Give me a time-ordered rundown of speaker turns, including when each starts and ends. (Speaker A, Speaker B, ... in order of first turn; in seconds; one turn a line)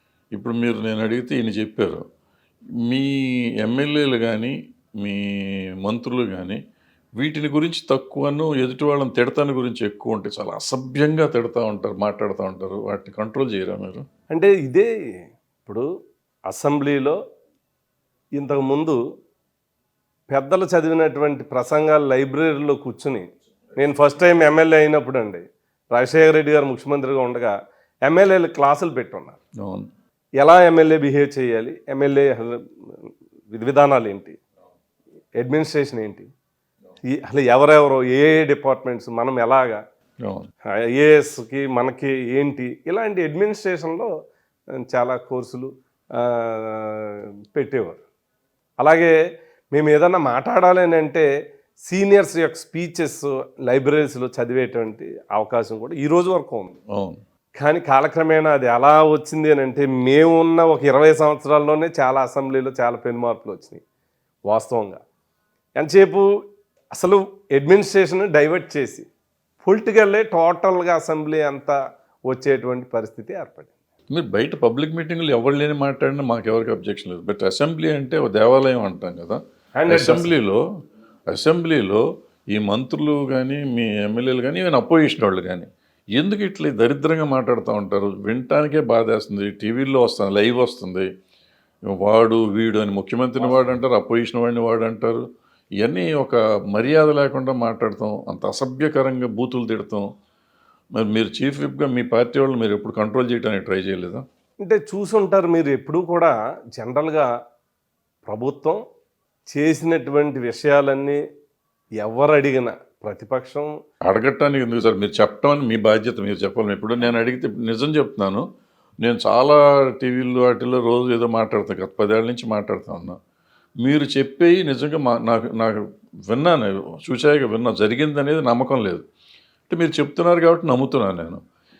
Speaker A: 0.3-2.0
Speaker A: 2.8-6.6
Speaker A: 7.2-14.0
Speaker B: 14.3-14.9
Speaker B: 16.5-17.2
Speaker B: 18.4-19.0
Speaker B: 20.3-27.5
Speaker B: 28.1-29.4
Speaker A: 29.6-29.9
Speaker B: 30.4-34.4
Speaker B: 35.4-36.3
Speaker B: 37.0-39.8
Speaker A: 40.2-40.5
Speaker B: 40.8-44.1
Speaker B: 44.9-48.0
Speaker B: 48.8-49.1
Speaker B: 49.7-51.3
Speaker B: 51.9-56.8
Speaker A: 56.9-57.2
Speaker B: 57.6-63.8
Speaker B: 64.5-65.0
Speaker B: 65.8-66.3
Speaker B: 66.9-69.1
Speaker B: 69.6-71.8
Speaker B: 72.3-73.7
Speaker A: 74.1-80.6
Speaker B: 79.8-80.3
Speaker A: 81.3-91.1
Speaker A: 91.9-95.2
Speaker B: 93.4-93.7
Speaker A: 95.8-100.1
Speaker A: 100.9-104.2
Speaker B: 104.6-107.3
Speaker B: 108.2-108.8
Speaker B: 109.5-111.2
Speaker B: 112.0-113.7
Speaker A: 114.0-118.4
Speaker A: 119.0-123.2
Speaker A: 123.8-129.0
Speaker A: 129.7-131.4